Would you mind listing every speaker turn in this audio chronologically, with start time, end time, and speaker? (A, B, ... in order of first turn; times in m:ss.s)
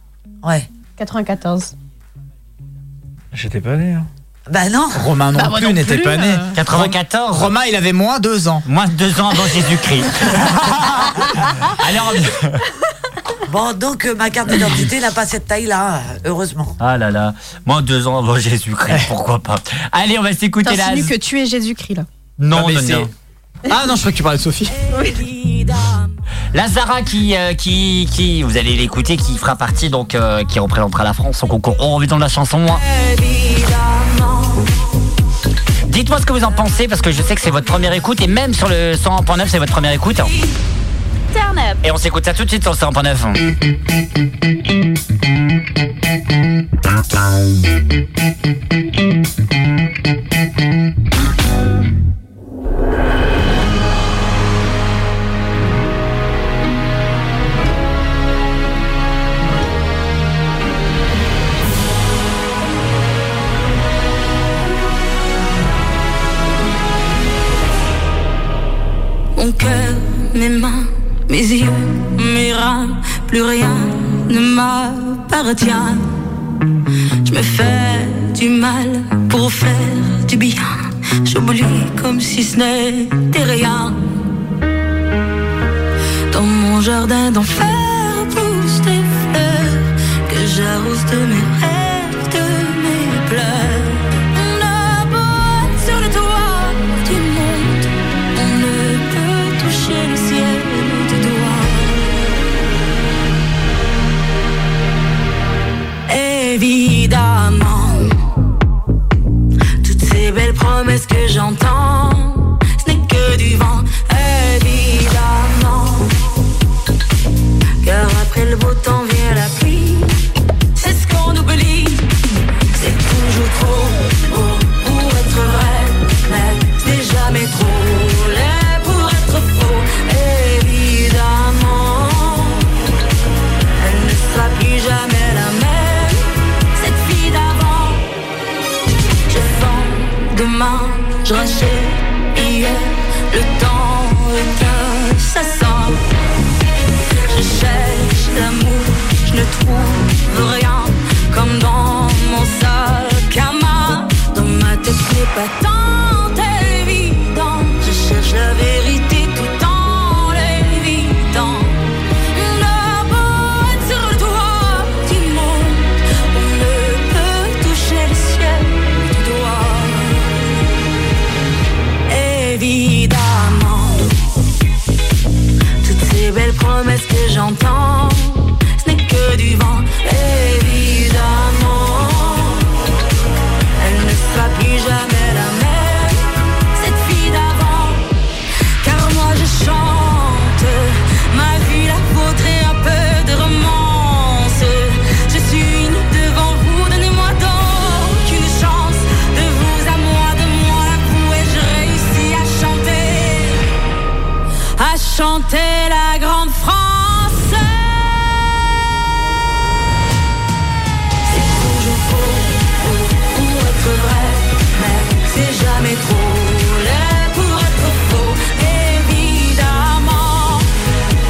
0:00.4-0:00.7 A
0:01.0-0:01.7 B
0:03.3-0:04.1 C
0:04.5-0:05.1 A
0:04.9-0:08.6 C
0:05.3-0:06.5 B
0:06.5-0:07.5 D
0:08.6-0:12.6 D
0:13.5-0:16.8 A
0:16.8-0:21.1 D
0:20.6-0:22.0 B
0:22.4-0:23.1 D
0:22.5-0:23.1 C
0:23.7-0:24.8 C
0:24.9-0:25.2 B
0:25.2-0:25.6 E
0:26.5-0:32.8 D
0:32.9-0:34.6 E
0:35.8-0:40.3 D
0:41.8-0:43.5 D
1:09.4-1:15.9 E
1:17.3-1:20.6 E
1:21.3-1:23.9 E
1:26.3-1:37.8 E
1:38.4-1:42.0 E
1:46.1-1:48.0 E
1:49.8-1:56.0 E
1:57.8-2:00.1 E
2:00.8-2:02.0 E
2:02.8-2:12.4 E
2:13.8-2:16.1 E
2:16.8-2:18.0 E
2:19.3-2:26.0 E
2:27.3-2:41.7 E
2:42.4-2:50.1 E
2:52.1-2:54.1 E
2:55.8-2:58.2 E
2:58.8-3:02.6 E
3:03.8-3:06.1 E
3:06.8-3:08.0 E
3:08.8-3:23.5 E
3:24.8-3:27.6 E
3:31.3-3:40.6 E